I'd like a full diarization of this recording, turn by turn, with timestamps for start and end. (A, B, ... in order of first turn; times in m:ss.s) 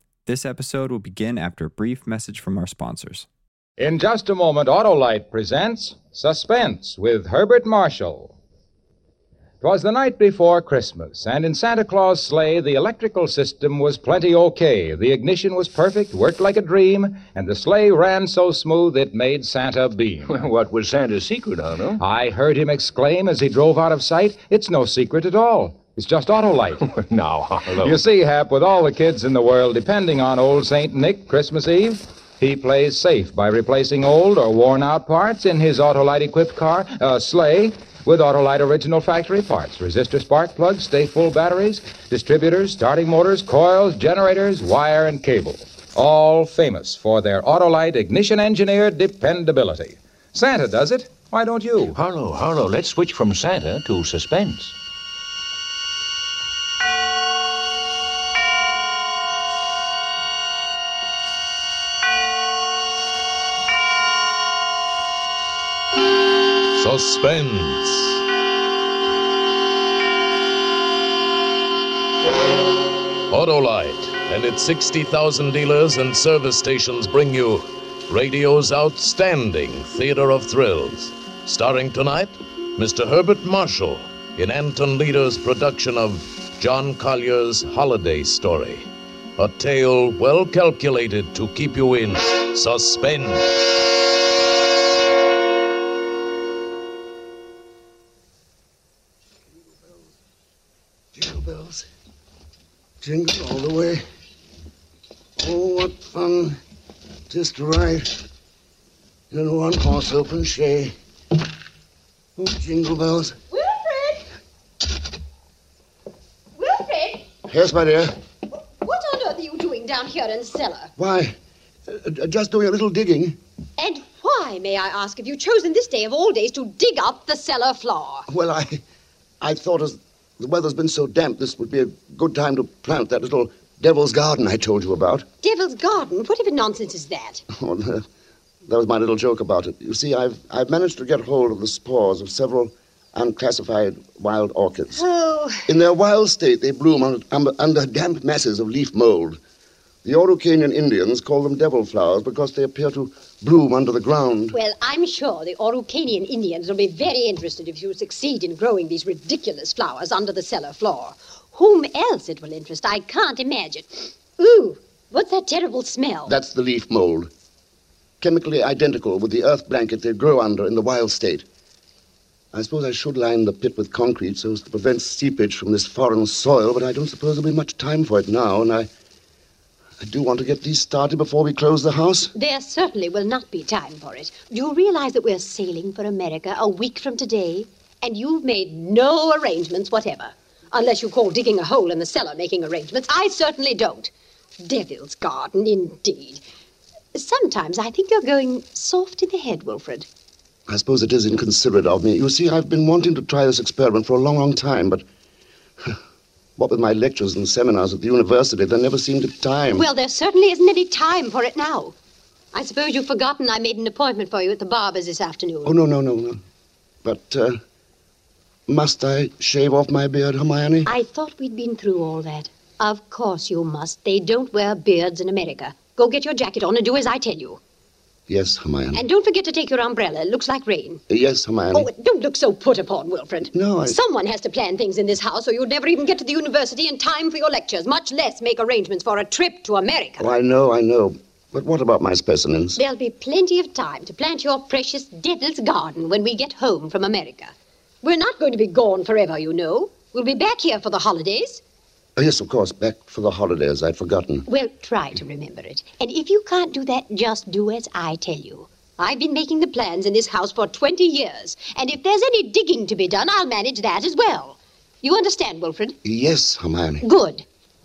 0:00.3-0:03.3 A
0:03.8-0:08.4 B
0:09.6-0:20.5 B
0:20.3-0:22.0 C
0:22.0-0:26.9 B
0:26.9-0:28.0 C
0:27.8-0:52.0 B
0:51.9-0:54.7 C
1:06.8-1:08.2 D
1:13.3-1:33.6 D
1:41.1-1:41.9 E
1:43.0-1:44.0 E
1:45.4-1:46.6 E
1:47.3-1:48.2 E
1:49.3-1:50.9 E
1:52.4-1:53.4 E
1:53.5-1:54.3 F
1:56.6-1:57.3 F
1:57.5-1:58.1 E
1:58.5-2:00.9 F
2:01.0-2:01.4 E
2:01.9-2:03.4 E
2:03.8-2:08.3 F
2:08.3-2:08.8 E
2:09.4-2:15.3 E
2:15.4-2:17.4 F
2:17.5-2:18.1 E
2:18.7-2:25.0 E
2:25.0-2:25.7 F
2:25.7-2:29.4 E
2:30.0-2:34.6 E
2:34.5-2:46.4 F
2:46.3-2:47.3 E
2:48.2-2:51.5 E
2:52.5-2:58.9 E
3:00.0-3:02.3 E
3:02.4-3:16.4 F
3:17.1-3:20.1 F
3:20.7-3:25.0 E
3:26.6-3:29.9 E
3:29.8-3:31.9 F
3:32.5-3:35.8 F
3:35.6-3:36.4 E
3:37.0-3:37.6 E
3:38.7-3:40.9 E
3:40.9-3:47.6 F
3:48.3-3:49.0 E
3:48.9-3:51.0 F
3:51.1-3:51.9 E
3:51.7-4:00.3 F
3:53.5-3:54.0 E
4:00.2-4:02.8 E
4:02.8-4:11.6 F
4:12.2-4:14.5 E
4:14.5-4:26.0 F
4:26.0-4:27.0 E
4:27.0-4:27.4 F